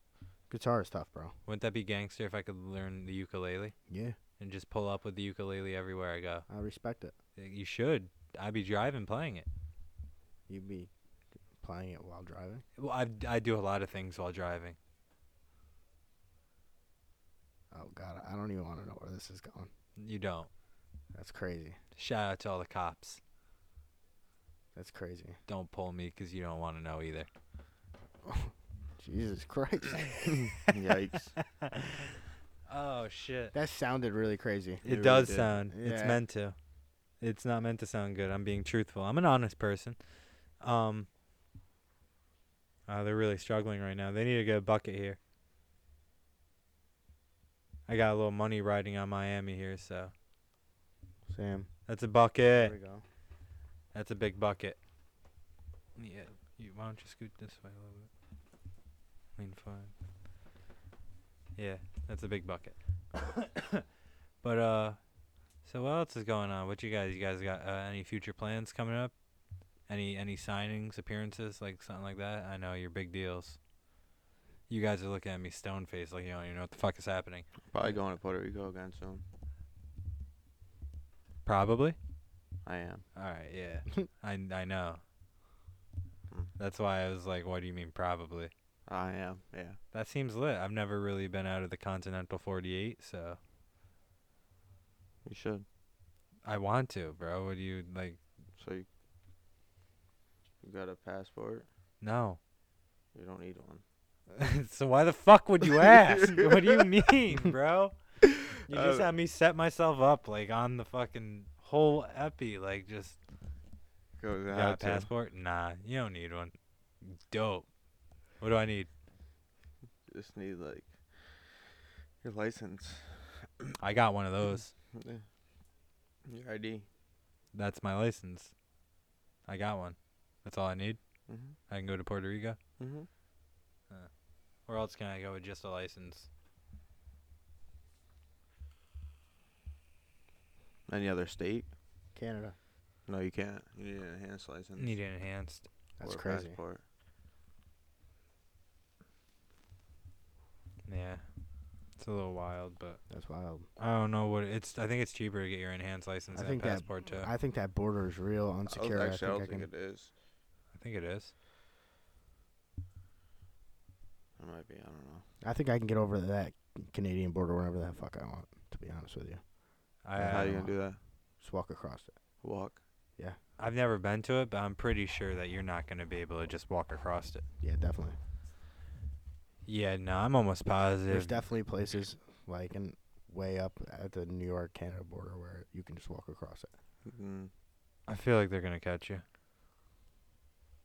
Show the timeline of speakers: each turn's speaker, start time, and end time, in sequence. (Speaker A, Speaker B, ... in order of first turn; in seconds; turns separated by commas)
Speaker A: 0.5-1.3, Speaker B: 1.5-3.7, Speaker A: 3.9-4.2, Speaker B: 4.4-6.4, Speaker A: 6.5-7.1, Speaker B: 7.4-9.5, Speaker A: 10.5-10.9, Speaker A: 11.6-12.6, Speaker B: 12.8-14.8, Speaker A: 17.7-19.7, Speaker B: 20.0-20.5, Speaker A: 21.1-21.8, Speaker B: 21.9-23.2, Speaker A: 24.7-25.4, Speaker B: 25.5-27.3, Speaker A: 28.2-30.3, Speaker C: 30.3-31.4, Speaker B: 31.4-32.0, Speaker B: 32.7-33.5, Speaker A: 33.5-34.8, Speaker B: 34.8-36.5, Speaker C: 34.8-35.5, Speaker A: 35.7-36.2, Speaker B: 37.2-40.0, Speaker B: 40.6-41.1, Speaker B: 42.9-45.2, Speaker B: 47.9-50.1, Speaker A: 51.3-51.7, Speaker B: 51.9-52.7, Speaker A: 52.5-53.0, Speaker B: 53.9-54.8, Speaker B: 56.0-58.1, Speaker B: 59.4-59.9, Speaker B: 61.6-63.8, Speaker B: 64.4-65.0, Speaker B: 65.6-69.1, Speaker B: 69.9-73.6, Speaker B: 74.7-77.7, Speaker C: 77.7-79.2, Speaker B: 81.5-82.0, Speaker C: 82.6-83.0, Speaker B: 83.2-85.0, Speaker B: 86.6-88.5, Speaker C: 88.9-89.8, Speaker B: 89.9-93.4, Speaker C: 95.2-95.6, Speaker B: 96.4-98.2, Speaker C: 98.6-98.9, Speaker C: 100.6-101.7, Speaker B: 102.0-102.4, Speaker C: 103.1-103.8, Speaker B: 104.3-108.0, Speaker C: 105.9-106.8, Speaker B: 108.6-113.2, Speaker C: 108.7-109.1, Speaker C: 114.2-115.1, Speaker B: 114.5-117.7, Speaker B: 118.4-118.9, Speaker C: 120.1-120.9, Speaker C: 122.2-123.7, Speaker B: 123.8-124.7, Speaker C: 124.9-125.2, Speaker C: 126.2-126.9, Speaker B: 127.5-128.5, Speaker B: 129.5-131.0, Speaker C: 131.3-131.6, Speaker B: 131.7-132.6, Speaker C: 132.8-133.1, Speaker B: 134.7-136.3, Speaker C: 140.9-141.7, Speaker A: 142.1-142.6, Speaker C: 143.1-144.9, Speaker B: 144.8-145.7, Speaker A: 146.0-146.6, Speaker C: 146.0-146.8, Speaker B: 150.8-151.2, Speaker B: 151.9-153.0, Speaker A: 153.1-153.7, Speaker B: 153.8-157.3, Speaker A: 156.3-159.7, Speaker C: 158.7-160.1, Speaker B: 160.7-161.3, Speaker C: 164.4-165.2, Speaker A: 165.4-169.4, Speaker B: 170.0-170.7, Speaker A: 170.1-170.8, Speaker C: 170.2-171.0, Speaker A: 171.4-172.1, Speaker C: 172.4-172.8, Speaker B: 173.6-177.4, Speaker A: 177.6-178.2, Speaker B: 179.7-181.4, Speaker A: 181.1-186.7, Speaker C: 187.0-187.5, Speaker B: 188.1-189.2